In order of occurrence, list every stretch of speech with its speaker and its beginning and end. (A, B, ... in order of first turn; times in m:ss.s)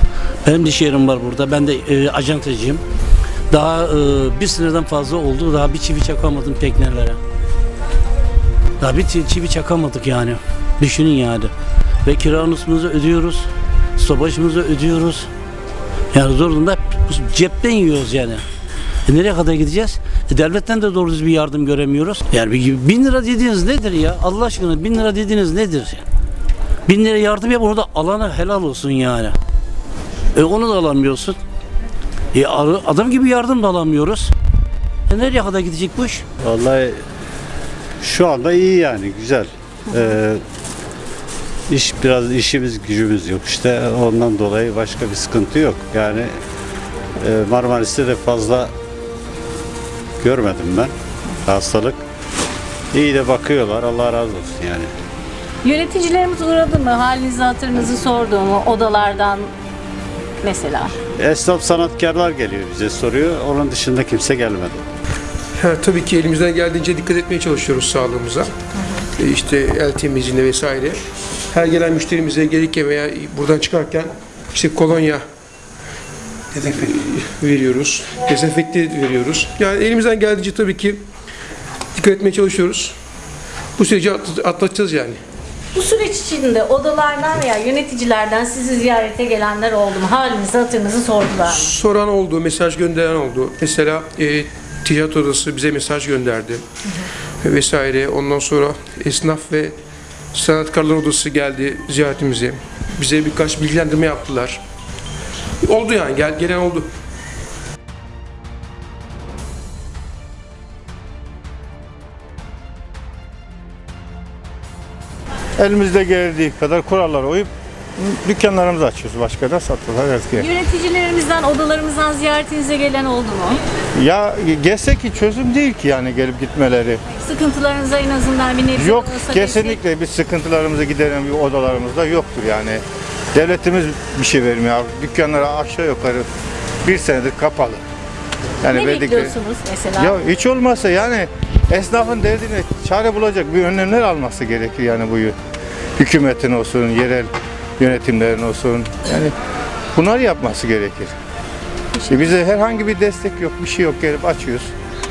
0:00.4-0:02.8 A
0:03.5-0:07.2 A
0:08.8-0:11.5 A
0:12.0-0:15.3 A
0:16.1-0:18.4 A
0:19.1-0:26.0 A
0:26.9-0:29.4 A
0:30.3-0:31.4 A
0:32.3-0:34.3 A
0:35.1-0:36.2 A
0:36.4-0:37.0 B
0:38.0-0:40.4 B
0:41.7-0:46.3 B
0:47.2-0:48.7 B
0:50.2-0:50.9 B
0:51.4-0:52.0 B
0:52.9-0:54.9 B
0:55.6-0:59.5 C
1:00.4-1:01.0 C
1:01.2-1:04.8 B
1:05.6-1:08.5 D
1:09.2-1:11.0 D
1:11.5-1:15.2 D
1:16.5-1:21.0 D
1:22.0-1:23.0 D
1:23.8-1:25.2 D
1:25.7-1:31.7 C
1:31.5-1:36.6 D
1:37.4-1:39.8 D
1:40.3-1:44.6 D
1:45.6-1:46.9 D
1:55.6-2:00.5 E
2:00.4-2:03.6 C
2:04.0-2:07.0 E
2:07.1-2:09.8 C
2:08.8-2:12.8 E
2:13.4-2:16.3 E
2:16.8-2:17.8 E
2:18.6-2:19.3 E
2:18.7-2:20.2 C
2:20.0-2:25.4 E
2:26.0-2:29.3 E
2:30.0-2:31.1 E
2:32.1-2:34.7 E